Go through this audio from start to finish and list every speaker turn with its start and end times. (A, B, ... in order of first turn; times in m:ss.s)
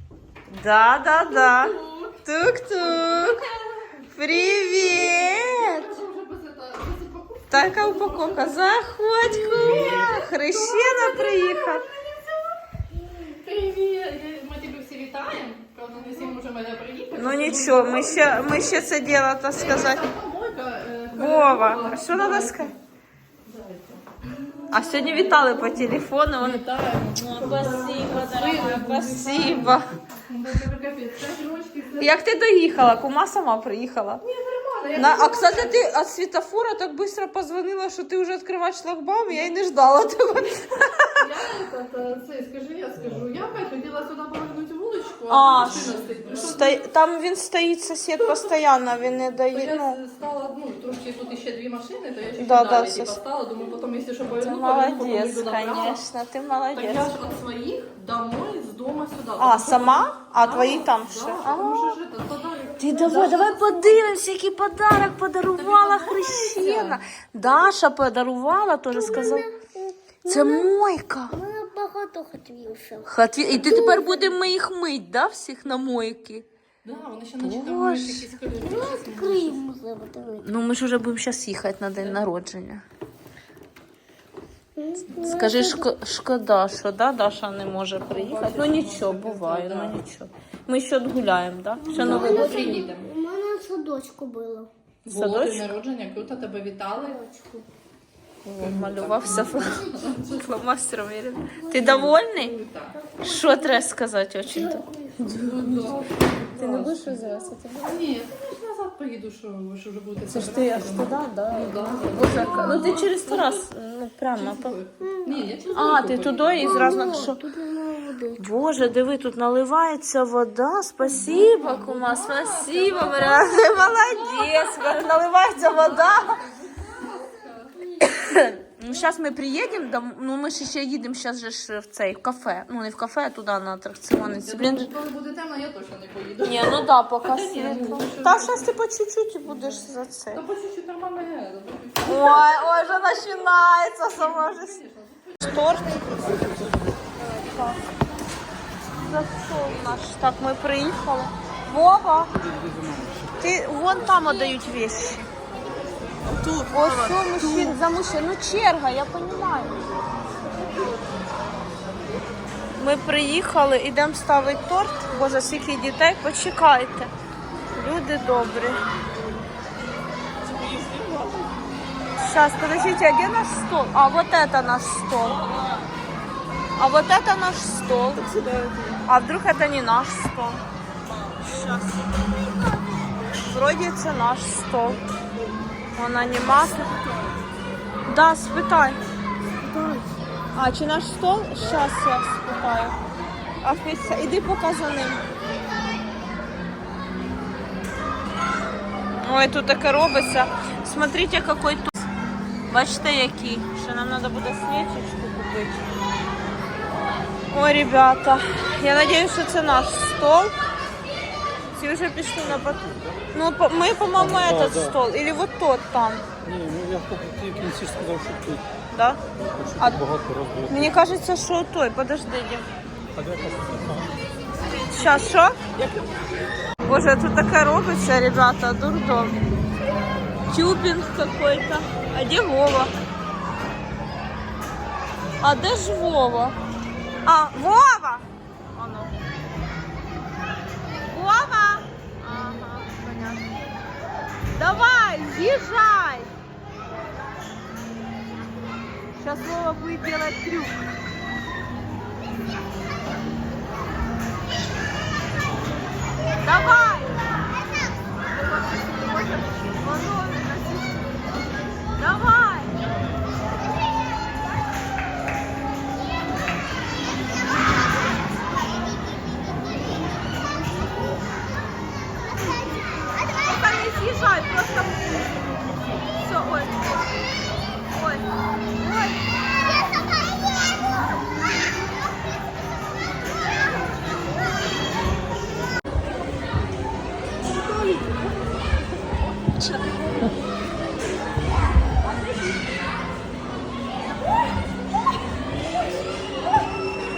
0:00.5-0:03.4 A
0:01.3-0:02.1 B
0:02.8-0:04.1 B
0:04.1-0:05.9 A
0:04.8-0:08.6 B
0:07.5-0:11.8 A
0:09.3-0:10.2 C
0:09.5-0:11.9 B
0:13.3-0:18.8 B
0:17.2-0:20.0 A
0:19.5-0:22.7 B
0:21.1-0:22.7 A
0:23.4-0:32.1 B
0:24.7-0:29.9 A
0:32.0-0:34.2 A
0:34.2-0:35.9 B
0:35.0-0:41.2 A
0:41.2-0:46.8 B
0:45.3-0:50.0 A
0:49.5-0:56.0 B
0:52.4-0:53.2 A
0:54.3-0:57.1 A
0:56.7-1:03.9 B
0:59.4-1:02.0 A
1:02.8-1:09.5 A
1:05.6-1:07.0 B
1:08.9-1:10.7 C
1:10.3-1:11.3 A
1:11.3-1:14.3 C
1:13.0-1:16.4 A
1:16.8-1:19.6 B
1:17.4-1:18.3 A
1:18.6-1:20.5 C
1:20.4-1:22.8 A
1:22.0-1:22.2 B
1:24.8-1:25.9 C
1:25.2-1:32.8 A
1:28.0-1:30.0 B
1:31.8-1:34.7 C
1:31.9-1:33.1 B
1:35.0-1:37.2 B
1:35.1-1:35.7 A
1:37.0-1:37.6 C
1:38.4-1:42.5 A
1:38.6-1:40.5 B
1:39.4-1:40.2 C
1:41.7-1:43.0 B
1:43.0-1:43.9 C
1:43.2-1:45.9 A
1:44.5-1:45.2 C
1:45.4-1:46.9 B
1:46.5-1:48.0 A
1:46.6-1:47.5 C
1:47.8-1:53.6 B
1:50.3-1:54.8 A
1:52.2-1:53.0 C
1:54.3-1:57.3 B
1:55.0-1:55.7 C
1:55.7-1:57.4 A
1:56.6-1:58.4 C
1:58.4-2:06.4 A
2:01.1-2:03.8 B
2:03.0-2:05.1 C
2:05.5-2:07.8 B
2:06.8-2:08.5 C
2:08.1-2:14.9 A
2:14.4-2:18.7 B
2:16.4-2:20.4 A
2:19.5-2:26.5 B
2:22.0-2:24.8 A
2:25.4-2:26.3 A
2:27.2-2:27.8 A
2:29.0-2:32.3 A
2:32.4-2:33.4 D
2:33.4-2:35.3 A
2:36.4-2:37.6 B
2:36.7-2:39.8 A
2:42.8-2:47.1 A
2:47.8-2:48.8 A
2:50.4-2:51.5 D
2:52.2-2:55.5 A
2:56.8-2:58.3 A
2:58.2-2:59.0 D
2:59.0-3:00.6 A
3:01.4-3:02.0 A
3:02.6-3:03.2 C
3:03.4-3:05.0 A
3:06.0-3:07.0 A
3:08.1-3:09.0 A
3:09.6-3:13.0 A
3:13.6-3:15.2 A
3:19.2-3:21.9 A
3:22.7-3:25.8 A
3:27.5-3:30.5 A
3:31.8-3:36.2 A
3:32.9-3:33.2 D
3:34.2-3:35.0 D
3:36.4-3:38.6 D
3:38.9-3:39.2 A
3:39.6-3:40.9 D
3:40.7-3:42.6 A
3:43.1-3:45.2 D
3:44.8-3:45.6 A
3:45.7-3:46.3 D
3:46.9-3:49.4 A
3:50.5-3:52.9 A
3:55.4-3:56.6 A
3:57.2-3:59.1 A
4:01.1-4:03.6 A
4:04.5-4:06.3 A
4:09.2-4:10.8 A
4:16.4-4:17.2 A
4:18.3-4:21.1 A
4:22.0-4:22.7 A
4:32.7-4:33.1 C
4:33.4-4:35.4 A
4:36.2-4:37.2 A
4:37.9-4:38.3 A
4:38.8-4:39.2 A
4:47.5-4:48.3 A
4:49.5-4:50.3 A
4:52.1-4:52.5 A